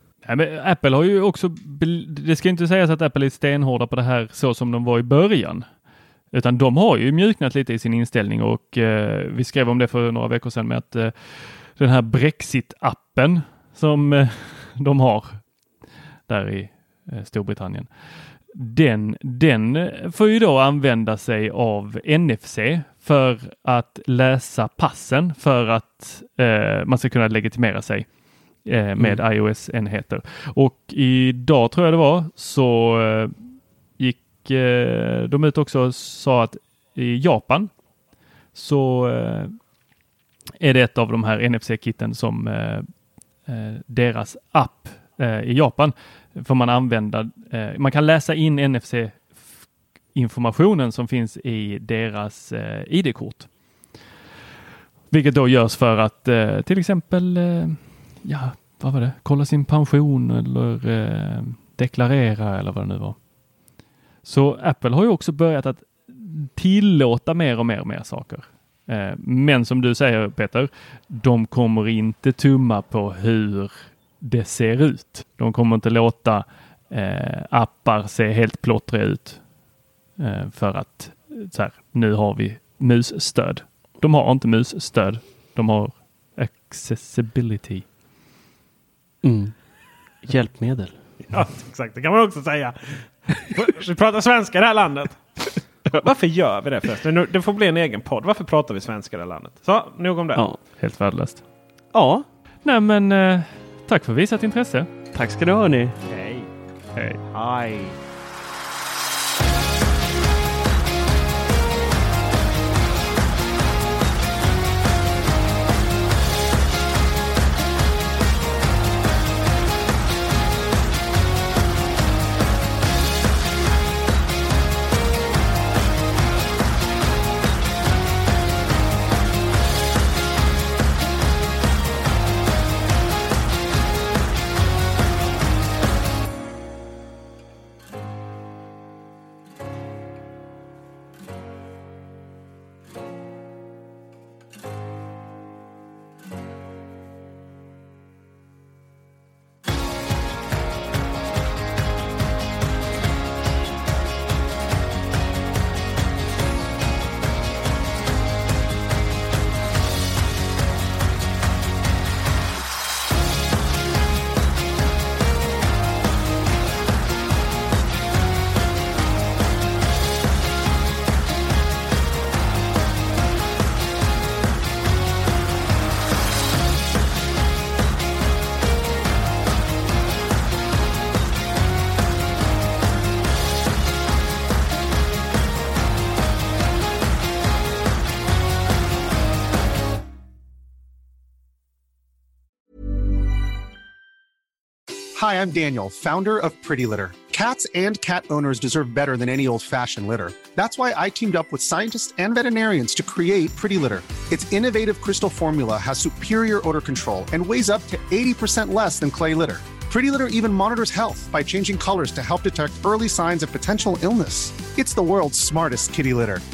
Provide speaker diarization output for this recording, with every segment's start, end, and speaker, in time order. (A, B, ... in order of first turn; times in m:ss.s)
0:00.2-0:05.6 A
0:06.3-0:15.4 A
0:16.3-0:17.9 A
0:18.5-0:28.1 A
0:28.6-0:33.3 A
0:34.0-0:37.7 A
0:38.6-0:39.5 A
0:40.6-0:42.9 A
0:43.5-0:49.4 A
0:50.1-0:53.5 A
0:55.1-1:03.2 A
1:04.2-1:19.4 A
1:20.2-1:27.8 A
1:29.2-1:29.5 B
1:30.2-1:31.0 B
1:31.3-1:35.2 C
1:35.9-1:40.4 C
1:40.8-1:41.4 A
1:41.9-1:42.2 B
1:42.6-1:44.9 A
1:45.1-1:46.0 B
1:46.1-1:46.5 C
1:47.0-1:47.2 A
1:47.3-1:47.9 C
3:15.2-3:36.4 D